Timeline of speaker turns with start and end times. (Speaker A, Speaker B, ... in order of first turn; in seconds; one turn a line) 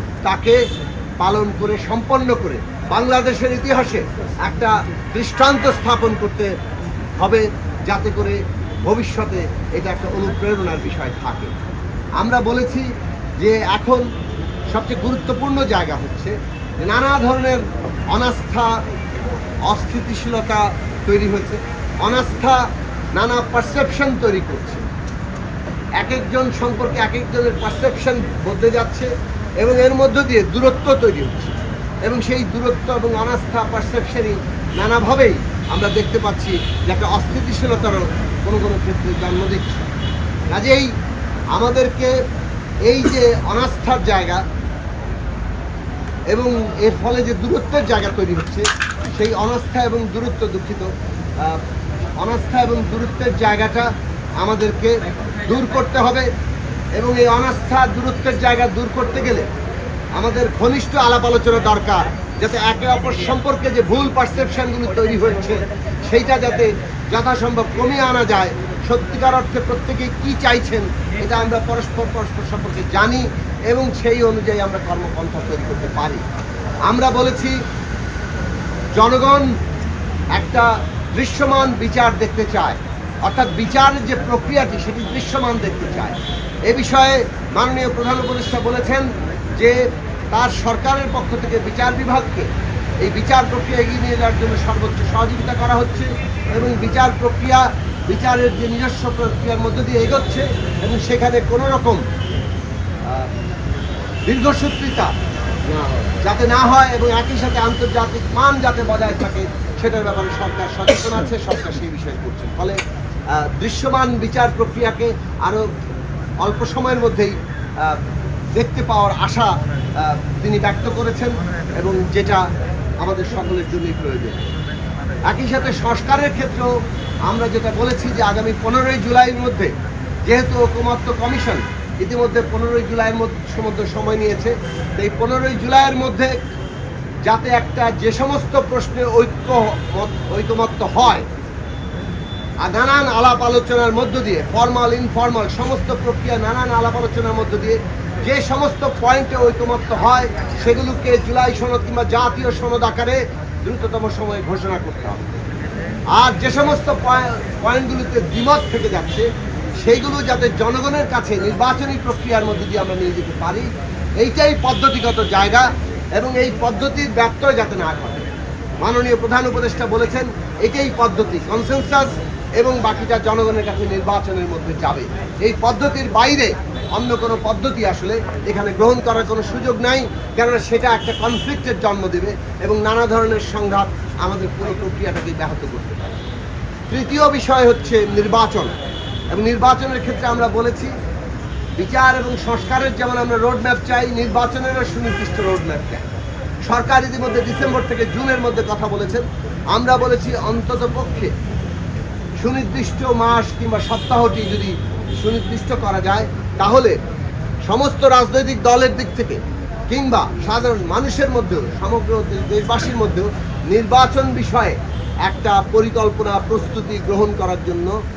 Speaker A: 0.2-0.6
Speaker A: 1.2-6.5
Speaker A: 7.2-11.5
Speaker A: 12.2-12.9
Speaker A: 13.4-14.0
Speaker A: 14.7-18.7
Speaker A: 19.7-22.6
Speaker A: 23.1-24.8
Speaker A: 26.0-29.1
Speaker A: 29.6-39.9
Speaker A: 40.5-40.9
Speaker A: 41.5-42.1
Speaker A: 42.9-44.4
Speaker A: 46.3-50.9
Speaker A: 52.2-53.9
Speaker A: 54.4-56.3
Speaker A: 57.0-59.5
Speaker A: 60.2-76.2
Speaker A: 76.9-77.5
Speaker A: 79.0-79.5
Speaker A: 80.3-86.2
Speaker A: 86.7-89.8
Speaker A: 90.3-92.5
Speaker A: 93.0-102.0
Speaker A: 104.3-105.1
Speaker A: 105.7-112.8
Speaker A: 113.3-115.7
Speaker A: 116.4-118.0
Speaker A: 118.5-122.4
Speaker A: 123.0-124.5
Speaker A: 125.3-126.7
Speaker A: 127.3-129.7
Speaker A: 130.3-136.4
Speaker A: 137.2-141.2
Speaker A: 142.6-155.2
Speaker A: 156.1-159.3
Speaker A: 159.8-168.3
Speaker A: 168.8-186.1
Speaker A: 186.9-188.7
Speaker A: 189.3-190.9
Speaker A: 191.8-196.1
Speaker A: 196.7-201.3
Speaker A: 202.4-206.9
Speaker A: 207.7-209.4
Speaker A: 209.9-217.9